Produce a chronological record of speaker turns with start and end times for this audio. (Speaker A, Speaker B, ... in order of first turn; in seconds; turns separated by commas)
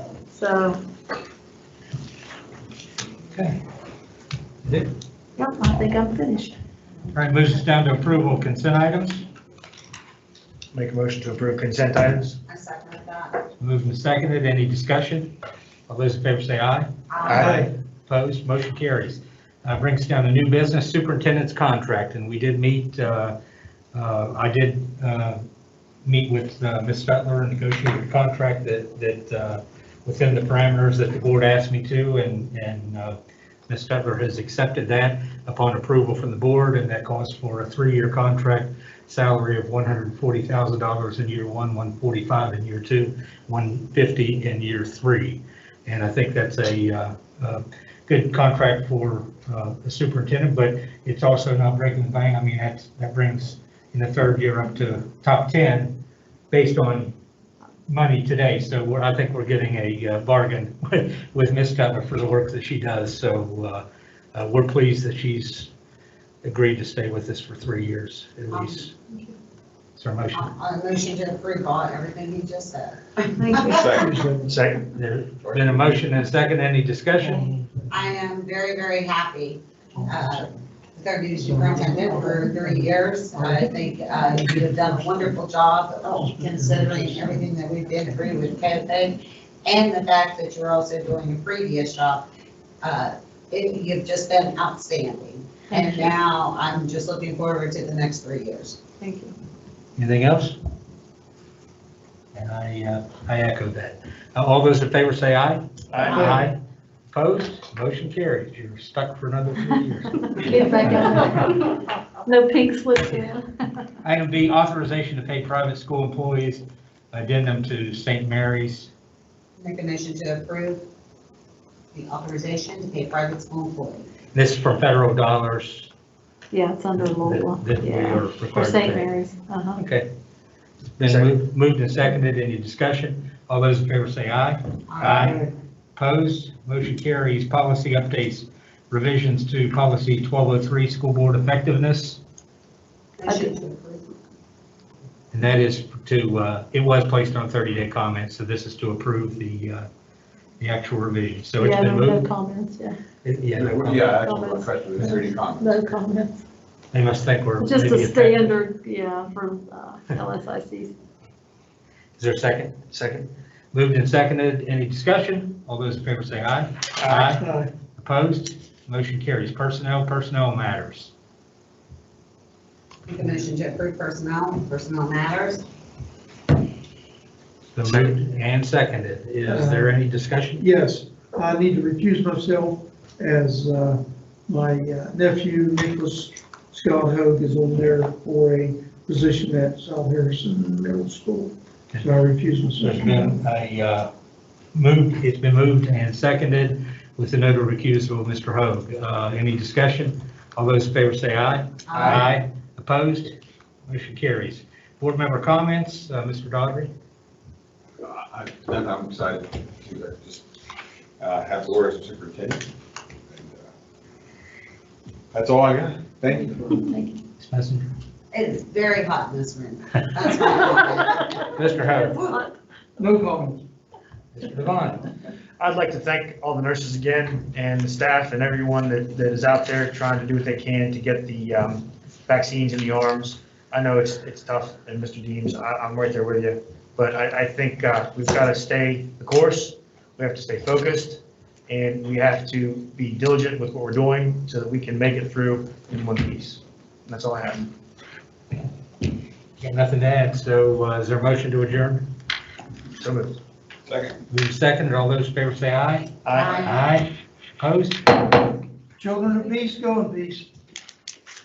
Speaker A: 0.3-0.8, Speaker B: 3.3-3.6, Speaker B: 4.6-4.9, Speaker A: 5.4-6.5, Speaker B: 7.1-9.2, Speaker C: 10.7-12.4, Speaker D: 12.4-13.4, Speaker B: 13.6-15.3, Speaker B: 15.9-16.9, Speaker D: 17.1-17.7, Speaker C: 17.2-17.6, Speaker E: 17.4-17.7, Speaker B: 18.1-23.4, Speaker B: 23.9-25.4, Speaker B: 26.0-33.2, Speaker B: 33.7-56.0, Speaker B: 56.5-57.1, Speaker B: 57.9-65.7, Speaker B: 66.4-68.9, Speaker D: 68.5-68.9, Speaker B: 70.0-70.5, Speaker D: 70.3-73.9, Speaker A: 73.4-73.7, Speaker E: 73.5-74.5, Speaker F: 73.7-74.0, Speaker C: 74.5-74.8, Speaker B: 74.9-77.5, Speaker F: 75.4-76.0, Speaker E: 77.2-77.9, Speaker D: 77.9-92.3, Speaker E: 80.0-80.4, Speaker E: 81.4-83.7, Speaker E: 84.3-85.3, Speaker E: 86.2-87.4, Speaker D: 92.8-98.8, Speaker A: 95.7-96.1, Speaker A: 99.0-99.3, Speaker B: 100.0-100.5, Speaker B: 102.3-106.5, Speaker C: 105.9-106.5, Speaker D: 106.0-106.3, Speaker B: 107.1-110.3, Speaker A: 110.3-113.5, Speaker B: 110.8-111.2, Speaker B: 114.0-118.9, Speaker D: 119.6-120.8, Speaker D: 121.9-124.1, Speaker B: 124.3-125.9, Speaker A: 126.5-129.8, Speaker B: 127.0-129.1, Speaker B: 129.8-130.1, Speaker B: 131.0-135.4, Speaker C: 131.0-131.3, Speaker D: 134.9-135.4, Speaker E: 135.0-135.5, Speaker B: 135.9-142.2, Speaker D: 143.2-144.1, Speaker A: 143.2-143.6, Speaker B: 145.3-149.8, Speaker B: 150.6-152.3, Speaker A: 151.6-153.0, Speaker B: 153.2-154.2, Speaker F: 153.5-156.0, Speaker A: 154.1-156.4, Speaker B: 156.9-158.6, Speaker A: 157.6-160.9, Speaker B: 162.2-162.8, Speaker C: 162.9-163.3, Speaker B: 163.7-167.4, Speaker C: 167.0-167.3, Speaker E: 167.2-167.7, Speaker B: 168.0-171.1, Speaker D: 173.1-175.6, Speaker B: 177.7-180.6, Speaker E: 179.5-179.9, Speaker E: 180.6-193.3, Speaker B: 192.8-194.1, Speaker B: 194.7-203.3, Speaker D: 201.9-202.4, Speaker B: 203.9-206.9, Speaker F: 208.0-210.4, Speaker F: 211.2-212.7, Speaker F: 213.3-213.7, Speaker F: 215.3-216.9, Speaker A: 216.3-217.2, Speaker B: 217.4-217.9, Speaker D: 218.3-222.4, Speaker B: 221.5-222.2, Speaker A: 221.8-222.6, Speaker E: 223.0-223.6, Speaker B: 224.3-225.1, Speaker C: 225.6-247.7, Speaker B: 249.6-252.1, Speaker C: 253.0-253.4, Speaker F: 253.8-254.2, Speaker B: 254.3-258.1, Speaker C: 256.2-256.7, Speaker D: 256.3-257.0, Speaker E: 259.0-260.5